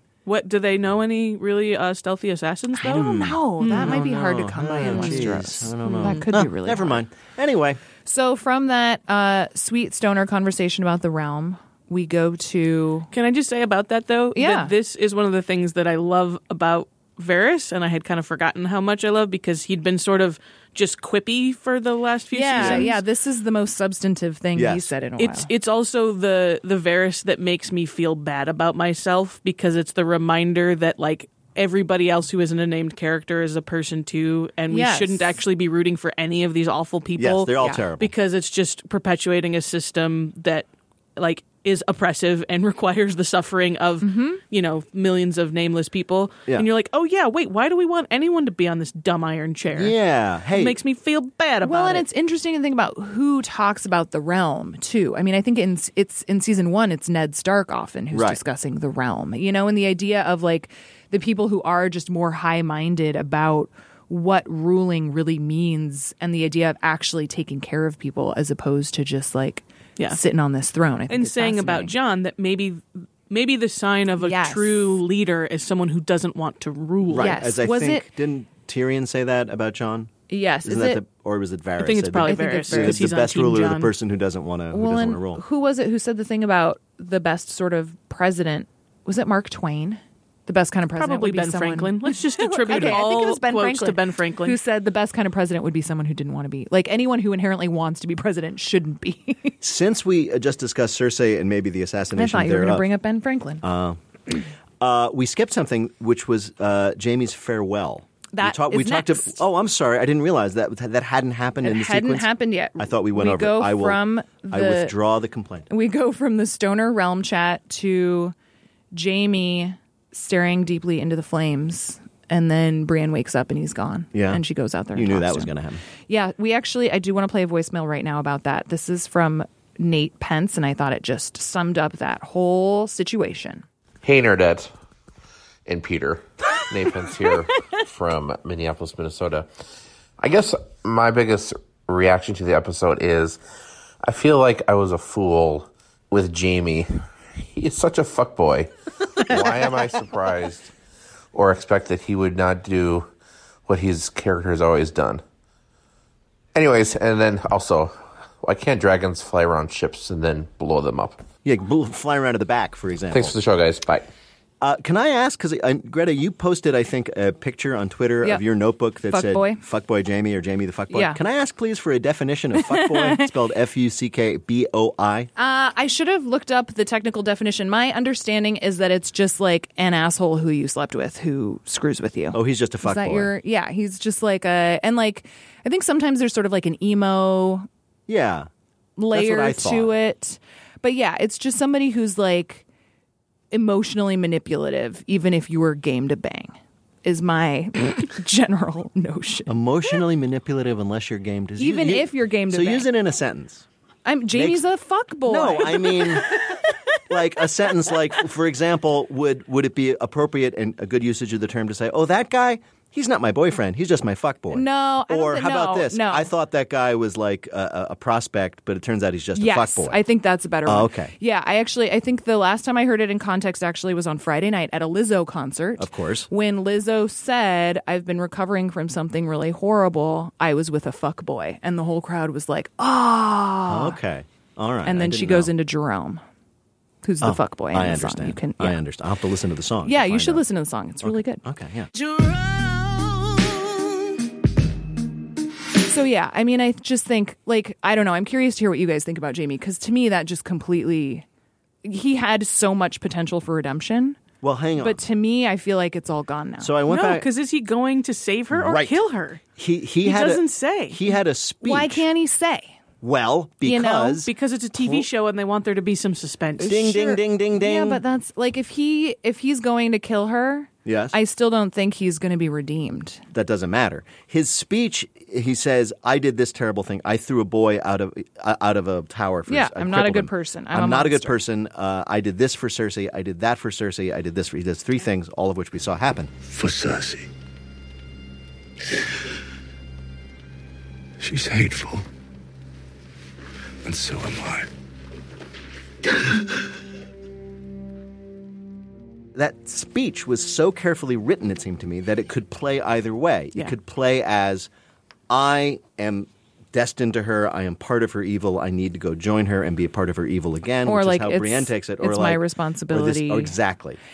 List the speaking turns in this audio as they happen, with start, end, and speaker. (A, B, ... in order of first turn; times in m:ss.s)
0:00.3-0:04.0 A
0:02.8-0:07.0 B
0:02.9-0:07.8 C
0:04.8-0:05.3 A
0:05.8-0:06.2 A
0:08.1-0:13.1 B
0:13.1-0:23.0 A
0:14.4-0:14.7 B
0:22.3-0:25.5 B
0:22.6-0:22.9 C
0:24.6-0:24.9 C
0:25.2-0:50.0 A
0:34.7-0:35.4 B
0:37.2-0:38.1 C
0:44.0-0:44.4 B
0:49.7-0:50.8 C
0:50.5-0:52.0 A
0:51.6-1:11.9 B
0:58.1-0:58.4 C
1:11.1-1:17.4 A
1:14.2-1:15.0 B
1:17.1-1:20.1 C
1:17.2-1:18.1 B
1:20.3-1:21.0 B
1:20.6-1:25.4 C
1:21.8-1:23.9 A
1:22.2-1:23.0 B
1:24.7-1:39.6 B
1:31.0-1:34.6 A
1:32.7-1:33.0 C
1:39.6-1:42.9 C
1:42.2-1:43.6 B
1:43.6-1:44.0 C
1:44.8-1:55.7 C
1:48.3-1:49.4 B
1:51.6-1:54.9 B
1:55.7-1:58.4 B
1:58.9-2:05.5 B
2:04.1-2:04.4 C
2:04.9-2:05.8 C
2:06.1-2:13.6 B
2:14.0-2:14.7 D
2:15.7-2:19.5 D
2:20.2-2:23.4 D
2:24.0-2:26.9 D
2:27.5-2:30.7 D
2:31.3-2:33.1 D
2:33.7-2:35.2 D
2:36.6-2:41.2 D
2:41.4-2:43.4 C
2:43.1-2:44.1 D
2:44.6-2:55.3 C
2:49.0-2:49.6 B
2:50.9-2:51.2 B
2:52.6-2:53.3 B
2:55.4-3:07.7 B
3:02.3-3:03.3 C
3:08.1-3:08.5 C
3:09.0-3:12.6 B
3:09.1-3:10.0 C
3:13.5-3:19.6 B
3:19.5-3:23.6 C
3:21.6-3:22.9 B
3:24.0-3:26.4 B
3:24.3-3:24.6 C
3:25.3-3:26.4 C
3:27.1-3:40.0 C
3:34.5-3:36.3 B
3:39.4-3:54.0 B
3:40.7-3:41.1 C
3:45.8-3:46.3 C
3:53.7-3:55.5 C
3:54.8-3:56.2 B
3:57.0-3:58.8 B
3:57.2-4:00.4 C
3:59.8-4:01.4 B
4:01.0-4:01.9 C
4:05.9-4:11.2 B
4:11.8-4:14.2 B
4:14.4-4:15.0 C
4:14.8-4:16.8 B
4:16.6-4:17.3 C
4:16.9-4:19.4 A
4:18.5-4:19.0 C
4:19.6-4:22.0 C
4:20.0-4:21.1 A
4:21.6-4:22.8 B
4:23.0-4:25.1 C
4:23.6-4:24.2 B
4:24.2-4:26.8 A
4:26.6-4:28.0 C
4:26.7-4:33.2 B
4:30.8-4:31.2 C
4:33.3-4:46.3 C
4:39.5-4:41.4 B
4:46.5-4:47.3 E
4:51.2-4:52.0 E
4:53.8-4:54.7 E
4:59.4-5:04.7 C
5:05.3-5:14.0 C
5:10.8-5:13.6 B